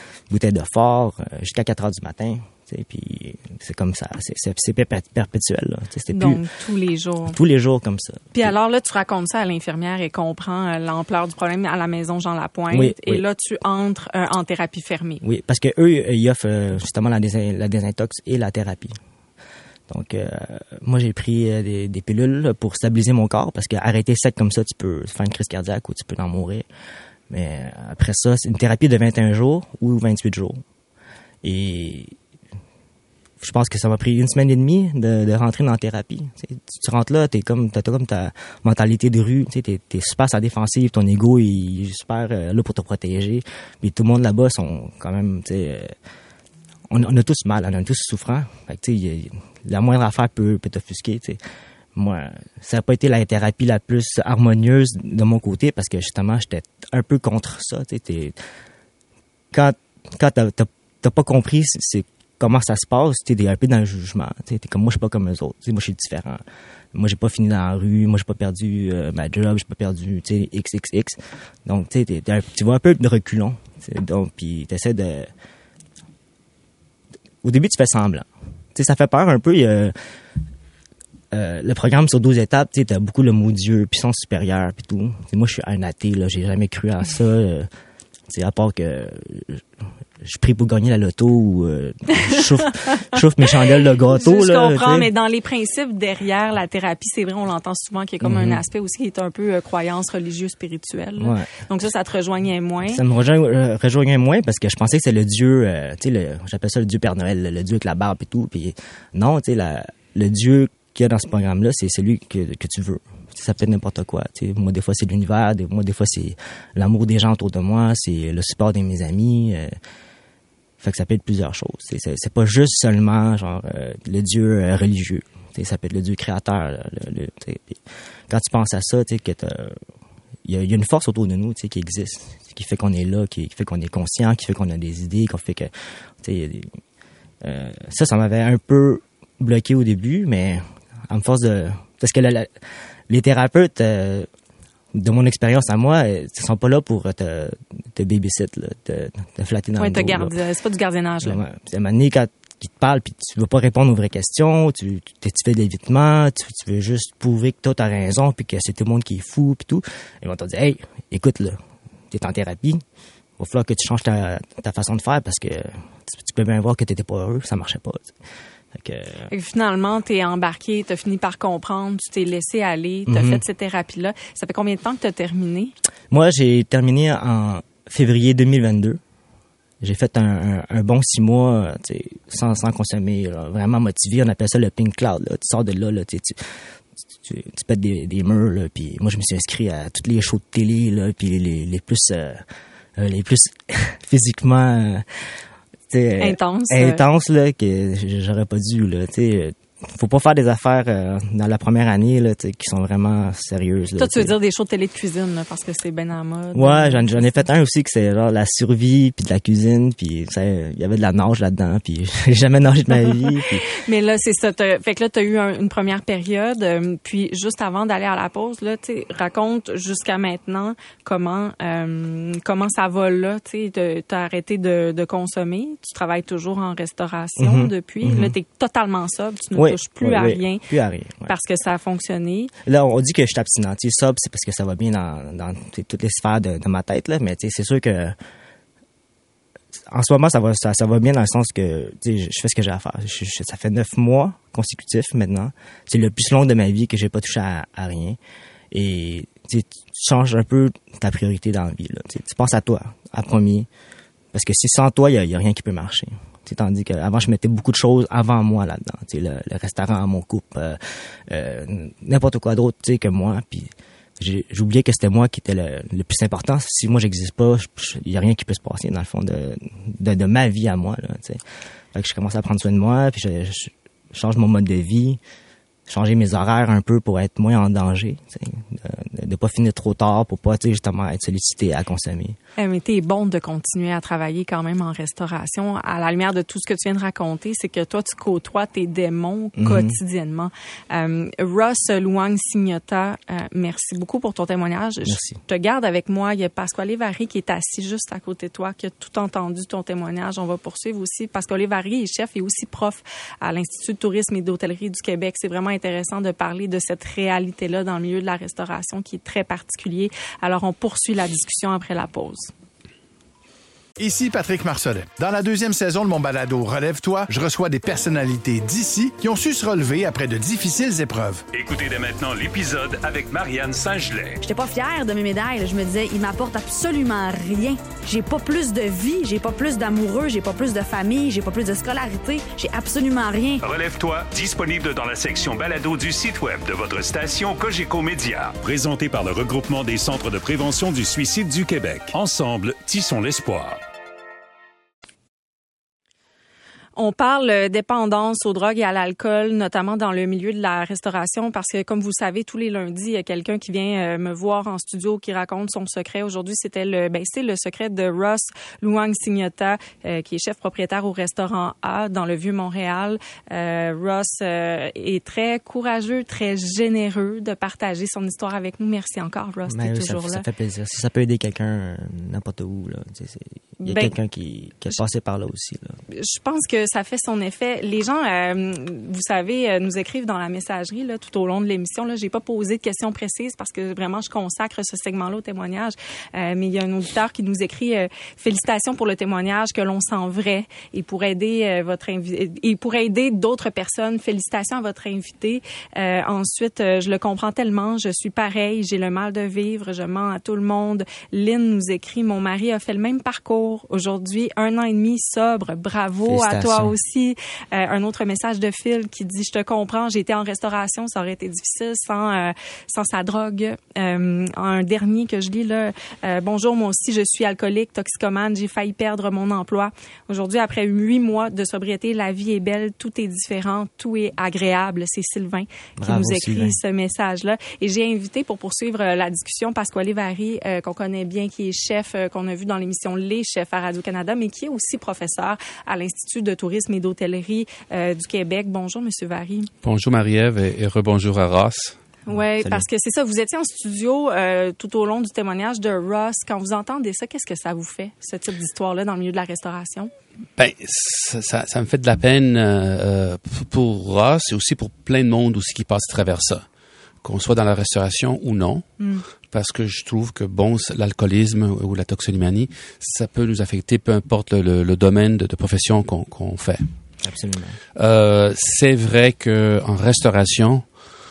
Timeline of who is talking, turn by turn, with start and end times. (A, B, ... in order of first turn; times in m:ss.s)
0:00.3-0:06.4 A
0:06.1-0:07.4 B
0:07.3-0:08.5 A
0:08.3-0:15.2 B
0:12.7-0:13.2 A
0:15.2-0:19.0 A
0:19.9-0:26.7 A
0:27.3-0:30.6 A
0:31.4-0:32.2 A
0:33.4-0:45.9 A
0:46.9-0:51.4 A
0:52.0-0:58.4 A
0:59.5-1:06.4 A
1:06.9-1:15.3 A
1:17.4-1:19.9 A
1:21.3-1:27.7 A
1:28.3-1:29.6 A
1:30.2-1:35.1 A
1:34.1-1:43.0 B
1:38.2-1:38.6 A
1:41.2-1:41.6 A
1:42.8-1:59.8 A
2:00.8-2:09.8 A
2:10.4-2:15.7 A
2:16.2-2:16.7 A
2:17.4-2:22.5 A
2:23.1-2:24.3 A
2:24.9-2:30.4 A
2:29.8-2:31.4 B
2:31.2-2:41.6 A
2:42.1-2:42.8 A
2:43.4-2:48.1 A
2:48.7-2:49.3 A
2:49.3-2:55.7 B
2:53.1-2:53.4 A
2:56.1-2:59.0 A
2:59.8-3:06.4 A
3:07.2-3:12.4 A
3:13.0-3:15.0 A
3:15.9-3:24.3 A
3:16.2-3:17.0 B
3:24.0-3:27.3 B
3:26.5-3:33.6 A
3:33.8-3:50.6 B
3:47.4-3:48.4 A
3:49.6-3:51.3 A
3:51.3-3:52.5 B
3:52.6-3:58.2 A
3:59.9-4:08.2 A
4:08.7-4:13.7 A
4:14.3-4:31.4 A
4:31.9-4:35.2 A
4:35.9-4:42.4 A
4:42.6-5:12.5 B
4:49.6-4:50.0 A
4:55.0-4:55.4 A
5:14.0-5:21.4 C
5:21.5-5:24.4 D
5:24.4-5:33.6 E
5:33.6-5:43.8 D
5:47.0-6:10.5 B
6:09.7-6:16.0 A
6:13.8-6:14.1 B
6:16.1-7:19.7 B
6:46.3-6:47.0 A
7:06.0-7:06.8 A
7:19.8-7:22.0 F
7:22.3-7:30.1 B
7:22.3-7:22.8 A
7:30.6-7:36.7 F
7:37.2-7:38.8 F
7:39.5-7:46.9 F
7:47.2-7:47.8 A
7:48.0-7:50.8 F